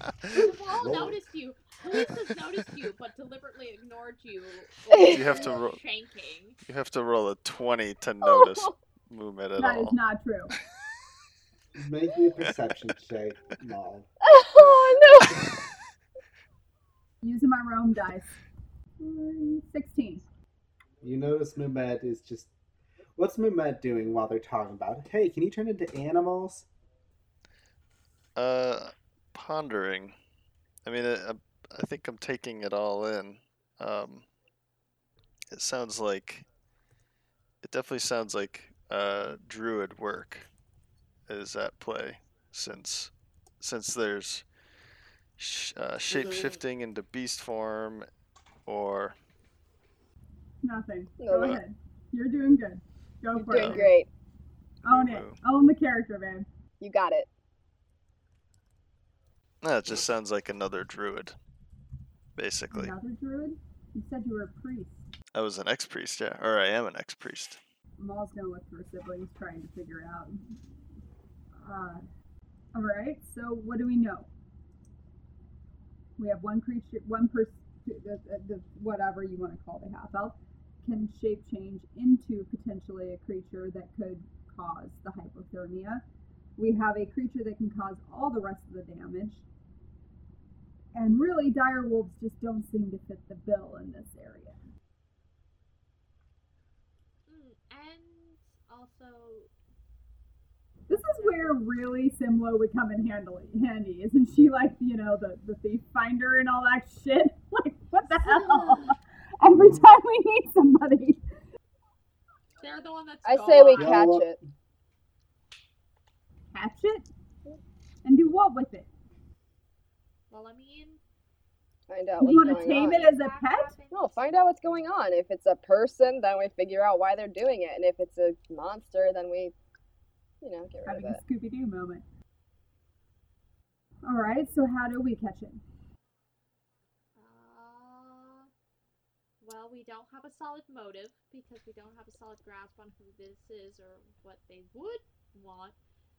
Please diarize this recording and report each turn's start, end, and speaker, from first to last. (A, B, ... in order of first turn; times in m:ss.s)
0:00.3-0:06.6 A
0:00.8-0:01.2 B
0:04.9-0:05.4 C
0:05.0-0:05.8 D
0:06.6-0:10.0 D
0:08.2-0:08.7 C
0:09.6-0:10.5 E
0:11.7-0:14.1 B
0:14.2-0:15.4 C
0:17.2-0:18.3 E
0:19.0-0:20.2 E
0:21.0-0:22.5 B
0:23.2-0:26.7 B
0:28.4-0:30.1 D
0:30.8-0:34.2 D
0:35.5-0:36.5 D
0:37.6-0:40.5 D
0:41.3-0:44.4 D
0:45.4-0:48.1 D
0:46.1-0:46.4 C
0:48.6-0:49.1 D
0:50.6-0:53.9 E
0:51.2-0:51.6 C
0:53.3-0:54.1 C
0:53.5-0:53.8 D
0:54.8-0:55.4 D
0:54.8-0:56.4 E
0:56.8-0:57.3 C
0:59.6-1:01.3 D
1:02.4-1:02.9 D
1:02.7-1:05.0 E
1:05.3-1:07.6 D
1:08.0-1:10.4 E
1:11.6-1:12.0 E
1:12.7-1:14.3 E
1:16.2-1:26.0 E
1:26.6-1:29.4 E
1:30.9-1:34.6 E
1:37.3-1:39.5 A
1:40.9-1:51.2 E
1:40.9-1:41.6 A
1:48.1-1:49.0 A
1:49.6-1:49.8 B
1:52.6-1:54.0 A
1:53.2-1:54.4 C
1:53.8-1:54.4 B
1:56.5-1:57.1 E
1:58.0-1:58.9 E
2:00.3-2:01.0 A
2:01.9-2:03.1 C
2:02.2-2:03.8 E
2:02.2-2:04.2 A
2:03.9-2:09.5 C
2:10.4-2:11.2 C
2:10.8-2:12.0 E
2:14.0-2:15.6 E
2:17.2-2:18.5 A
2:19.4-2:25.8 A